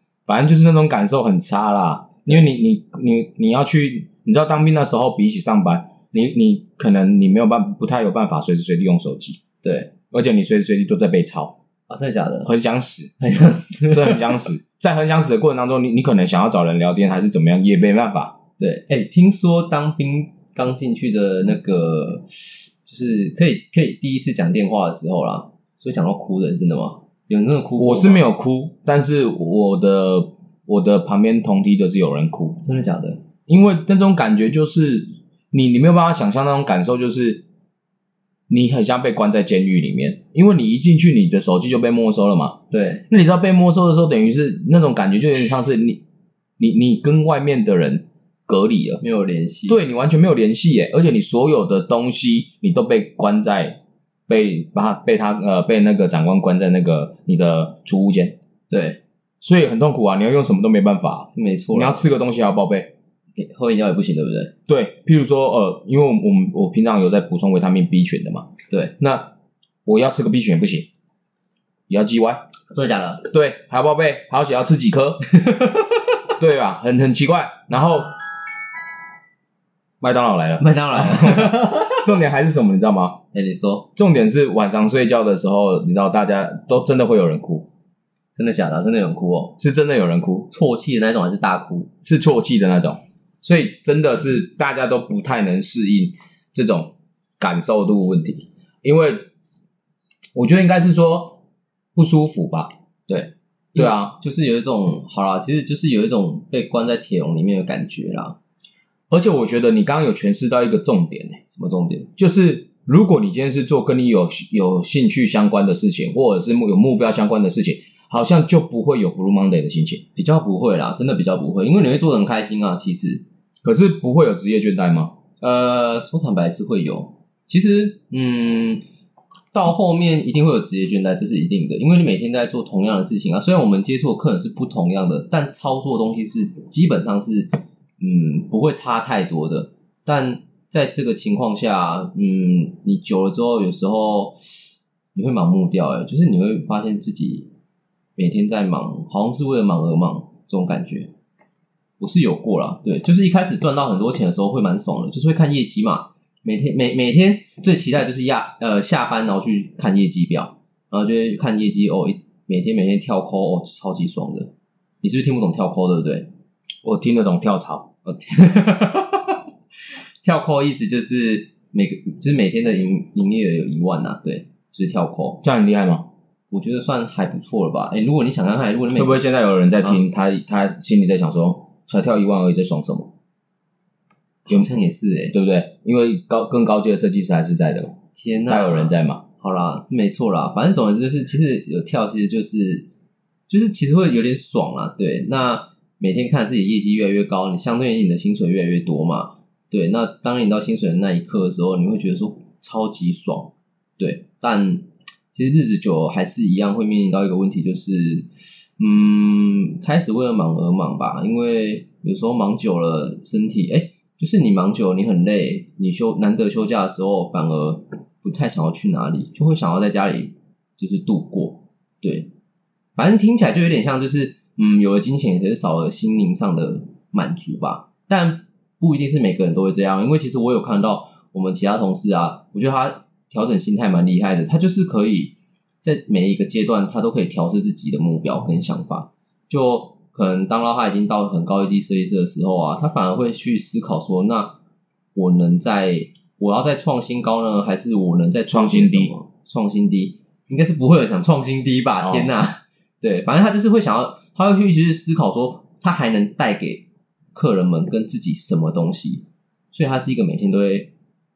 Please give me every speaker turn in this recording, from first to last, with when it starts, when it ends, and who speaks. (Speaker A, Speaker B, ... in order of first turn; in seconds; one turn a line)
Speaker A: 0.3-9.4
Speaker B: 9.6-9.9
Speaker A: 10.1-11.6
Speaker B: 11.9-12.5
Speaker A: 12.4-13.1
Speaker B: 13.2-14.4
Speaker A: 13.9-18.4
Speaker B: 18.6-28.2
Speaker A: 27.8-32.6
Speaker B: 32.6-33.2
Speaker A: 33.5-37.4
Speaker A: 38.5-42.6
Speaker B: 42.7-43.0
Speaker A: 43.1-46.0
Speaker A: 46.6-49.0
Speaker B: 49.0-49.8
Speaker A: 49.7-58.4
Speaker B: 58.7-59.0
Speaker A: 59.4-62.9
Speaker B: 61.3-62.1
Speaker B: 63.4-64.5
Speaker A: 64.7-69.3
Speaker A: 69.9-70.9
Speaker A: 71.9-72.4
Speaker B: 72.7-73.3
Speaker A: 73.2-75.3
Speaker B: 75.5-75.8
Speaker A: 76.4-78.2
Speaker A: 80.0-83.2
Speaker B: 80.6-82.1
Speaker B: 83.3-83.9
Speaker A: 84.0-87.7
Speaker B: 88.3-89.6
Speaker A: 89.6-90.5
Speaker B: 90.5-91.9
Speaker A: 92.0-99.3
Speaker A: 100.3-101.4
Speaker A: 102.0-102.7
Speaker B: 103.1-108.4
Speaker A: 103.8-104.2
Speaker A: 109.1-111.4
Speaker B: 111.5-112.1
Speaker A: 112.2-120.0
Speaker B: 120.2-123.2
Speaker A: 123.6-125.1
Speaker B: 125.4-128.8
Speaker B: 129.5-147.5
Speaker B: 148.2-151.1
Speaker B: 152.0-164.5
Speaker B: 165.0-166.3
Speaker A: 166.8-167.9
Speaker B: 168.1-169.4
Speaker B: 170.2-175.4
Speaker A: 175.4-176.1
Speaker B: 176.5-179.3
Speaker A: 178.9-183.1
Speaker B: 184.5-185.4
Speaker A: 185.3-188.0
Speaker B: 188.2-192.9
Speaker A: 188.5-189.2
Speaker B: 193.5-222.3
Speaker B: 222.9-244.6
Speaker B: 245.2-260.9
Speaker A: 248.5-249.1
Speaker A: 252.0-252.3